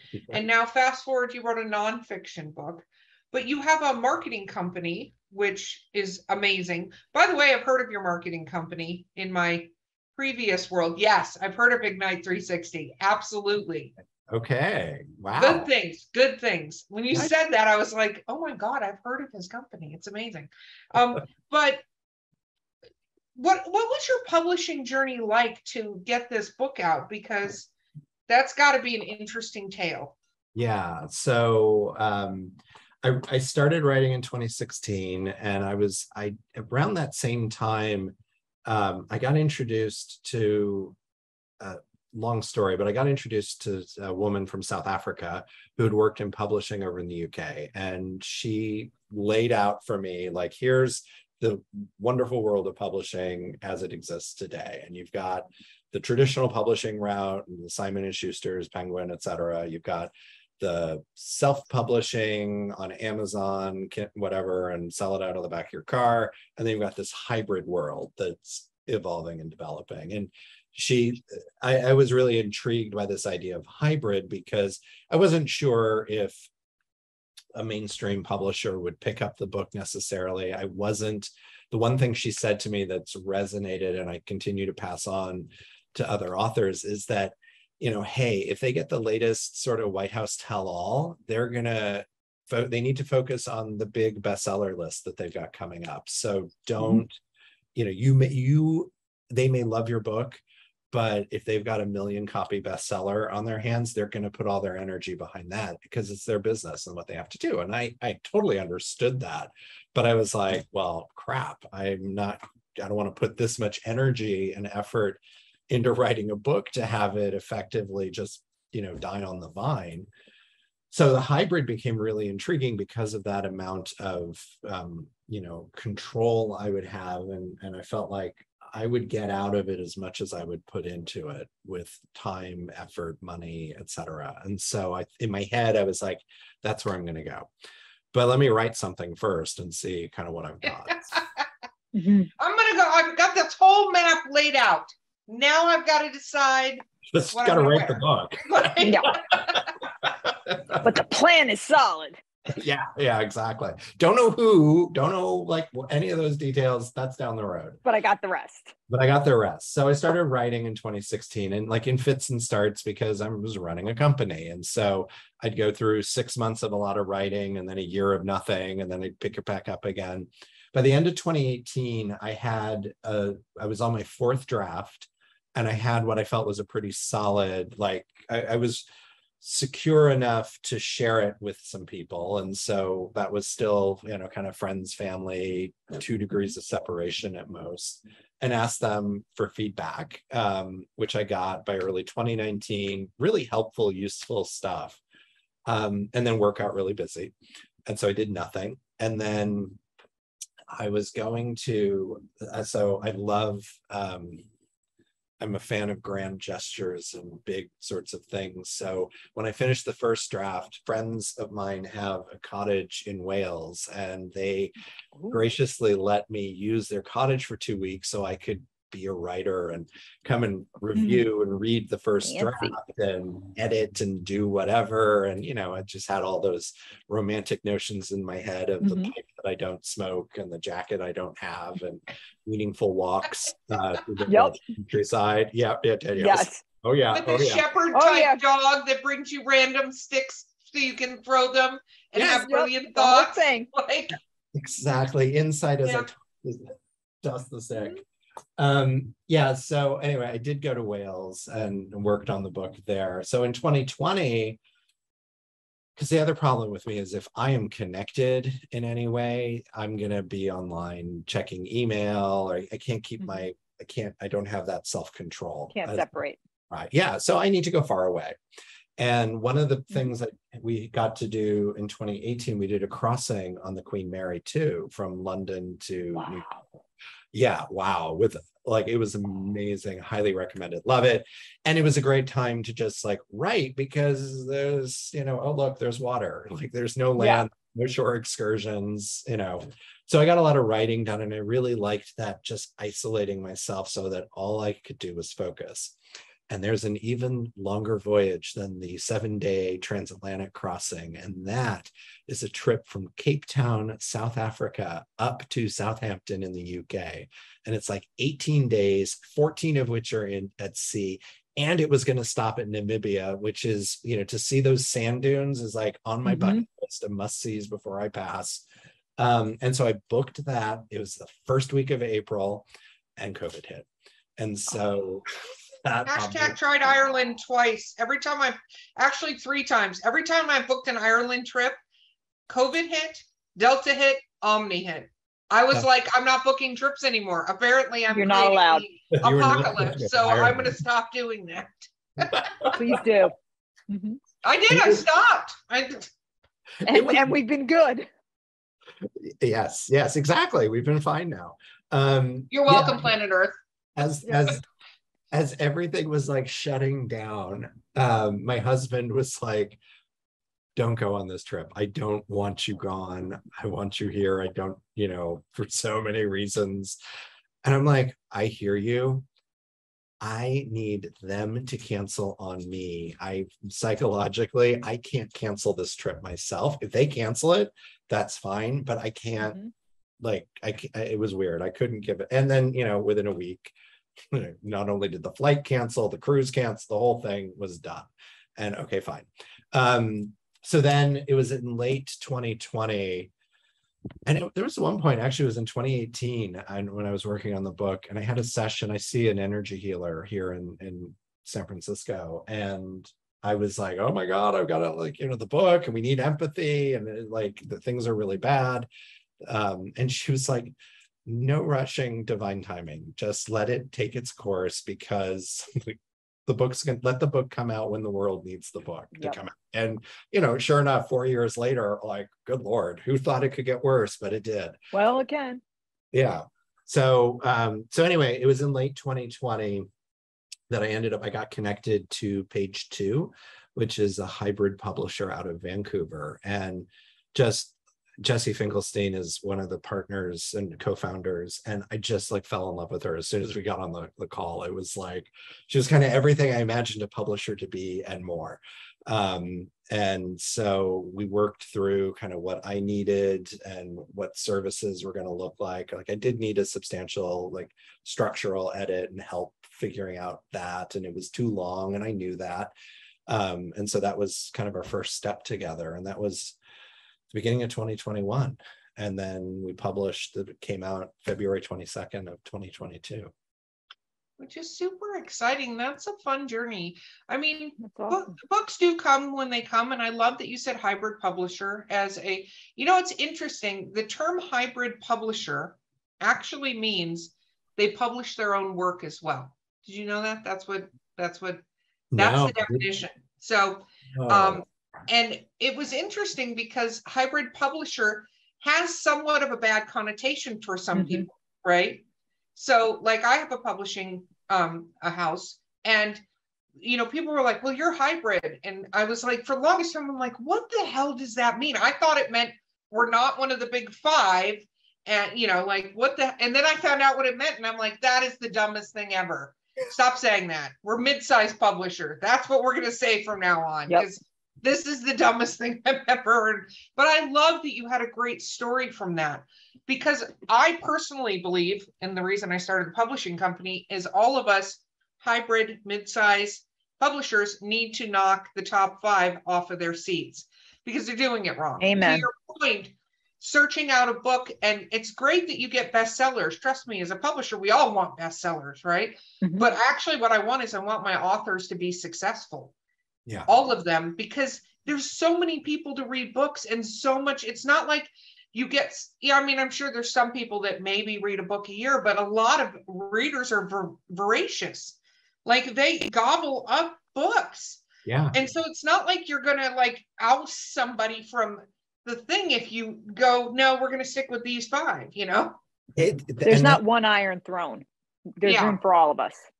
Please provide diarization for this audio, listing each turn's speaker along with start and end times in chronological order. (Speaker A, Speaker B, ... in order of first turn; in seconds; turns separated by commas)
Speaker A: 0.1-0.4, Speaker B: 0.3-13.9, Speaker A: 14.3-15.7, Speaker B: 15.3-21.8, Speaker B: 23.4-27.7, Speaker B: 28.3-30.2, Speaker A: 30.6-38.1, Speaker A: 38.7-41.0, Speaker A: 41.6-76.5, Speaker A: 77.5-97.2, Speaker A: 97.8-120.1, Speaker A: 120.9-137.5, Speaker A: 138.1-141.2, Speaker C: 141.9-142.3, Speaker B: 142.4-149.7, Speaker A: 147.1-150.9, Speaker C: 148.8-149.1, Speaker C: 150.8-152.2, Speaker A: 152.5-157.8, Speaker C: 157.8-158.8, Speaker A: 158.9-178.9, Speaker A: 179.4-195.0, Speaker A: 195.7-197.3, Speaker A: 197.9-199.8, Speaker A: 200.7-204.4, Speaker A: 205.4-214.7, Speaker C: 215.2-215.4, Speaker A: 215.3-237.7, Speaker C: 221.0-221.2, Speaker C: 222.2-222.8, Speaker C: 228.8-229.1, Speaker C: 234.3-234.6, Speaker C: 236.2-236.6, Speaker B: 237.1-244.2, Speaker C: 237.9-238.4, Speaker C: 242.2-243.7, Speaker A: 244.5-248.0, Speaker A: 248.6-254.6, Speaker A: 256.0-266.1, Speaker C: 265.8-266.4, Speaker A: 266.7-268.4, Speaker A: 269.0-276.6, Speaker C: 276.2-276.6, Speaker A: 277.3-295.9, Speaker C: 287.2-287.5, Speaker A: 296.5-318.6, Speaker C: 316.3-316.6, Speaker A: 319.2-322.7, Speaker A: 323.2-325.2, Speaker A: 325.9-326.6, Speaker B: 326.1-331.8, Speaker B: 332.5-342.7, Speaker C: 338.1-338.9, Speaker A: 339.1-340.8, Speaker A: 342.3-343.0, Speaker C: 342.7-343.4, Speaker C: 343.9-344.2, Speaker B: 344.4-346.1, Speaker A: 344.7-345.1, Speaker C: 346.9-348.1, Speaker A: 346.9-347.3, Speaker A: 349.0-353.1, Speaker B: 352.5-353.6, Speaker A: 354.0-354.6, Speaker A: 355.3-359.8, Speaker A: 360.8-367.0, Speaker A: 367.6-369.3, Speaker A: 370.2-379.6, Speaker C: 379.4-379.7, Speaker A: 380.2-383.7, Speaker A: 384.3-393.3, Speaker A: 394.3-408.9, Speaker A: 409.4-424.8, Speaker C: 424.9-425.6, Speaker A: 426.1-429.9, Speaker A: 430.7-462.7, Speaker A: 463.3-466.6, Speaker A: 467.3-473.3, Speaker B: 474.4-491.6, Speaker C: 477.8-478.4, Speaker A: 492.1-492.9, Speaker B: 492.1-502.0, Speaker A: 494.2-494.6, Speaker C: 500.9-501.3, Speaker B: 502.6-506.2, Speaker B: 506.8-552.7, Speaker C: 541.8-542.3, Speaker C: 549.4-549.7, Speaker B: 553.5-575.6, Speaker A: 568.0-568.4, Speaker A: 576.0-576.8, Speaker C: 576.4-577.9, Speaker C: 578.4-579.5, Speaker B: 578.5-578.8